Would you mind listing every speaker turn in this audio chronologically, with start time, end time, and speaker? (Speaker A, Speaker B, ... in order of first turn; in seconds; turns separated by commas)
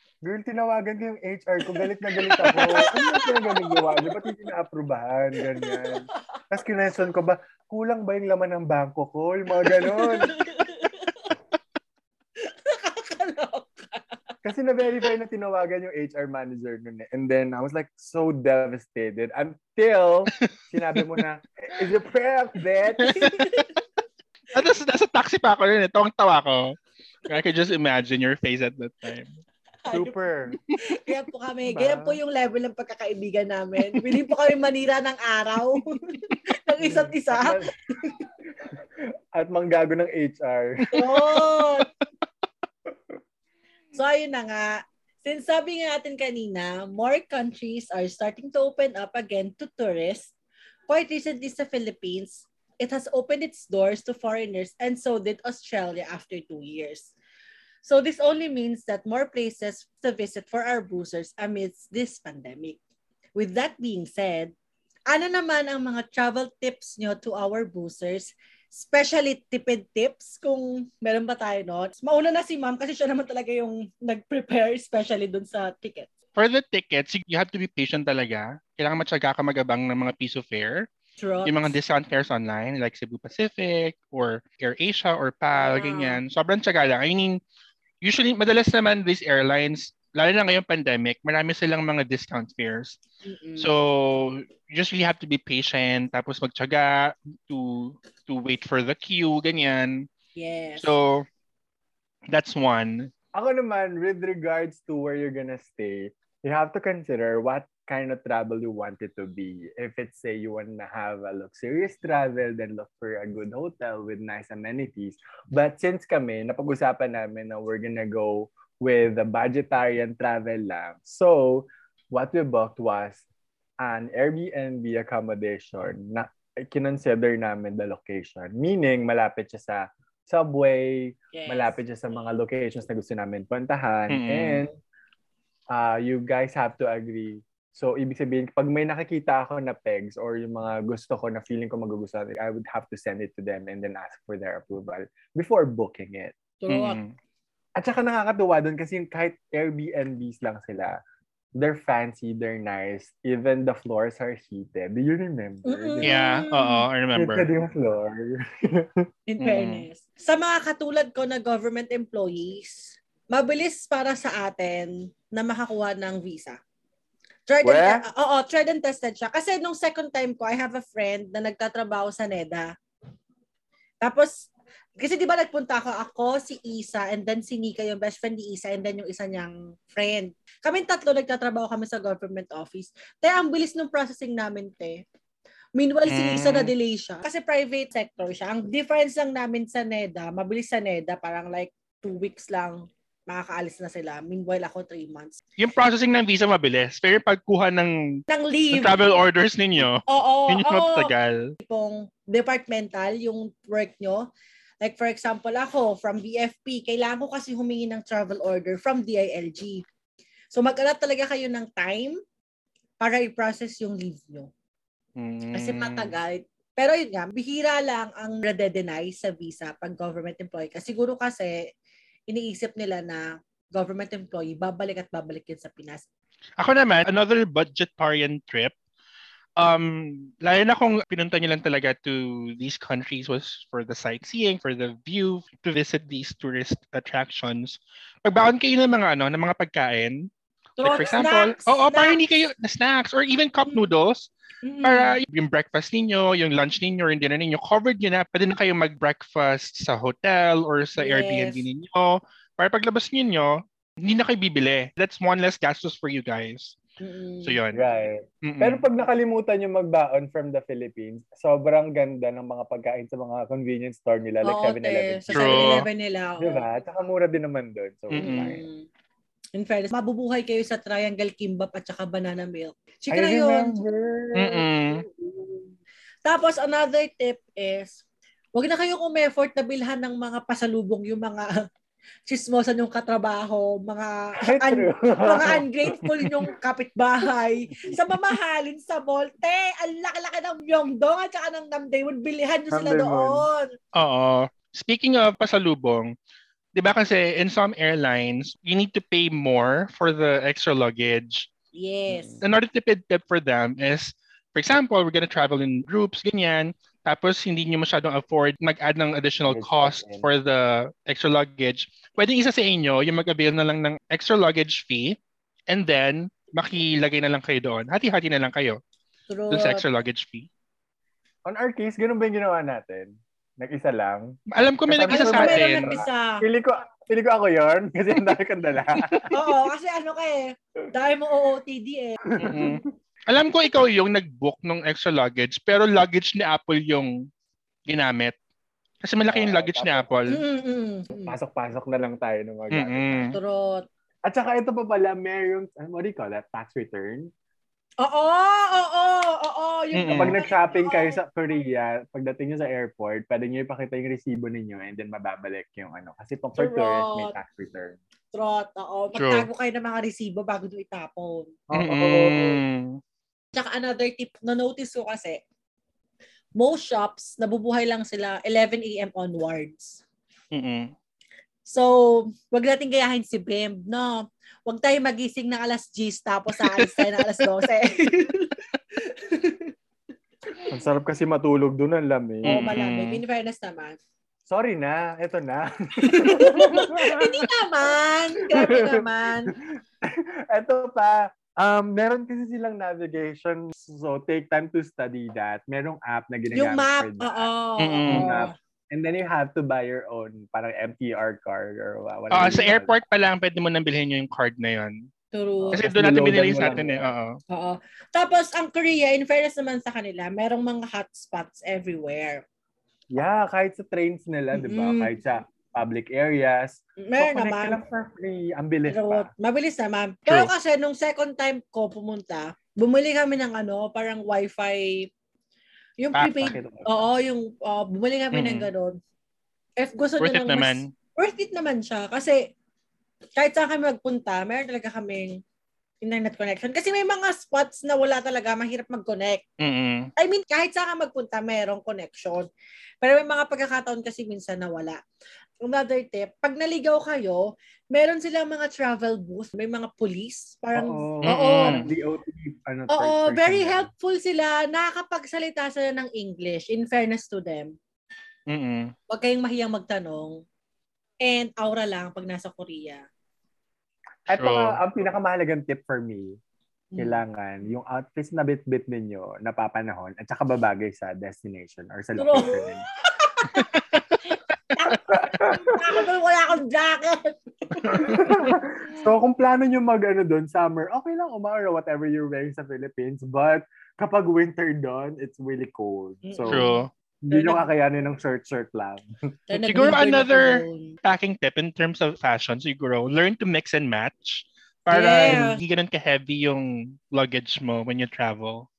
Speaker A: 0.2-10.3, Speaker B: 1.7-4.2, Speaker B: 5.6-6.0, Speaker B: 9.7-11.3, Speaker B: 12.4-14.0, Speaker A: 14.4-23.3, Speaker B: 23.0-23.7, Speaker C: 23.0-23.8, Speaker C: 24.5-26.8, Speaker C: 27.3-29.4, Speaker B: 29.8-30.1, Speaker A: 29.9-30.6, Speaker B: 30.8-36.0, Speaker A: 31.6-32.2, Speaker B: 36.6-38.2, Speaker A: 36.8-37.7, Speaker A: 39.3-41.4, Speaker B: 40.9-41.9, Speaker B: 43.9-50.3, Speaker B: 50.9-57.1, Speaker B: 57.8-62.8, Speaker B: 63.4-64.5, Speaker B: 65.1-76.1, Speaker C: 76.3-80.9, Speaker B: 81.2-81.8, Speaker C: 81.4-87.4, Speaker B: 85.5-86.2, Speaker C: 88.0-93.0, Speaker B: 93.2-93.7, Speaker C: 93.6-100.1, Speaker B: 100.3-100.9, Speaker C: 100.8-101.2, Speaker C: 102.3-103.1, Speaker A: 103.3-123.2, Speaker A: 123.8-134.7, Speaker B: 131.3-131.8, Speaker C: 134.1-134.6, Speaker A: 135.7-146.3, Speaker B: 146.6-147.0, Speaker C: 146.7-147.1, Speaker A: 147.8-150.9, Speaker A: 151.6-156.3, Speaker B: 155.6-156.8, Speaker C: 156.0-157.5, Speaker A: 157.1-159.1, Speaker B: 159.3-166.6, Speaker C: 159.4-159.8, Speaker B: 167.5-172.7, Speaker A: 167.6-168.1, Speaker B: 174.0-185.0, Speaker B: 185.8-195.4, Speaker C: 186.1-186.7, Speaker C: 195.6-201.5, Speaker B: 198.3-199.1, Speaker B: 200.1-204.3, Speaker B: 204.8-209.8, Speaker B: 210.5-212.2, Speaker B: 213.0-214.5, Speaker C: 215.2-216.2, Speaker B: 215.5-221.6, Speaker B: 222.3-226.1, Speaker C: 226.6-228.7, Speaker C: 229.6-240.3, Speaker B: 240.8-242.2, Speaker C: 240.8-244.3, Speaker B: 244.6-245.2, Speaker C: 244.8-256.8, Speaker B: 251.0-251.7, Speaker B: 257.0-257.6, Speaker C: 257.4-257.8, Speaker A: 257.7-265.6, Speaker C: 258.4-258.9, Speaker B: 264.4-266.6, Speaker C: 265.3-265.9, Speaker A: 266.4-268.6, Speaker C: 268.1-268.6, Speaker B: 268.1-268.9, Speaker B: 269.6-273.8, Speaker A: 273.1-275.7, Speaker C: 274.3-275.0, Speaker B: 276.2-278.0, Speaker B: 278.5-281.5, Speaker B: 282.3-293.7, Speaker A: 284.4-286.5, Speaker A: 287.9-288.1, Speaker A: 292.7-293.4, Speaker C: 293.9-296.1, Speaker C: 296.7-301.5, Speaker B: 301.7-302.4, Speaker A: 302.1-302.4, Speaker C: 302.4-315.2, Speaker A: 309.5-310.3, Speaker C: 315.7-318.8, Speaker B: 319.3-319.8, Speaker C: 319.5-320.5, Speaker A: 321.4-324.4, Speaker C: 324.5-326.0, Speaker A: 324.9-329.3, Speaker B: 325.1-326.4, Speaker B: 329.3-332.7, Speaker A: 332.3-332.8, Speaker C: 332.4-337.2, Speaker C: 337.9-338.4, Speaker C: 339.0-340.4, Speaker A: 339.3-340.1, Speaker B: 340.3-341.3, Speaker A: 341.2-343.3, Speaker C: 342.7-343.4, Speaker B: 343.3-343.9, Speaker A: 344.2-347.3, Speaker B: 348.0-351.2, Speaker C: 349.9-350.4, Speaker A: 350.1-358.0, Speaker B: 356.6-357.3, Speaker B: 358.3-361.5, Speaker C: 359.1-359.5, Speaker A: 361.7-362.6, Speaker C: 361.7-363.0, Speaker B: 363.5-365.4, Speaker B: 366.6-370.0, Speaker C: 370.5-370.9, Speaker B: 371.6-379.7, Speaker C: 376.8-377.4, Speaker A: 380.7-382.6, Speaker C: 382.4-383.2, Speaker B: 382.4-384.0, Speaker A: 384.5-387.5, Speaker B: 386.0-389.5, Speaker A: 388.5-397.5, Speaker B: 396.5-398.5, Speaker C: 397.8-398.4, Speaker A: 398.1-403.0, Speaker C: 402.3-405.0, Speaker B: 405.3-405.8, Speaker A: 405.6-407.1, Speaker C: 405.7-407.4, Speaker B: 407.5-412.4, Speaker A: 413.1-419.3, Speaker B: 414.5-415.1, Speaker B: 417.0-417.8, Speaker B: 418.9-425.1, Speaker B: 426.0-429.0, Speaker C: 426.1-426.5, Speaker A: 426.3-427.0, Speaker C: 428.3-428.7, Speaker B: 429.8-432.4, Speaker C: 430.2-430.9, Speaker B: 433.4-435.4, Speaker B: 436.0-439.4, Speaker C: 439.6-440.1, Speaker B: 440.2-442.5, Speaker B: 443.0-445.0, Speaker B: 445.6-451.9, Speaker A: 450.7-453.9, Speaker C: 451.2-451.9, Speaker B: 452.9-457.7, Speaker C: 458.5-458.9, Speaker B: 459.1-460.4, Speaker B: 461.2-463.0, Speaker A: 464.3-466.3, Speaker C: 464.3-464.8, Speaker B: 466.9-467.2, Speaker A: 466.9-472.8, Speaker B: 472.2-473.7, Speaker C: 473.5-474.1, Speaker B: 474.7-478.5, Speaker A: 475.1-476.0, Speaker C: 477.8-478.1, Speaker A: 477.9-486.7, Speaker B: 486.2-487.7, Speaker C: 486.5-486.9, Speaker A: 487.2-489.1, Speaker B: 489.5-490.9, Speaker C: 489.5-498.7, Speaker B: 494.9-495.6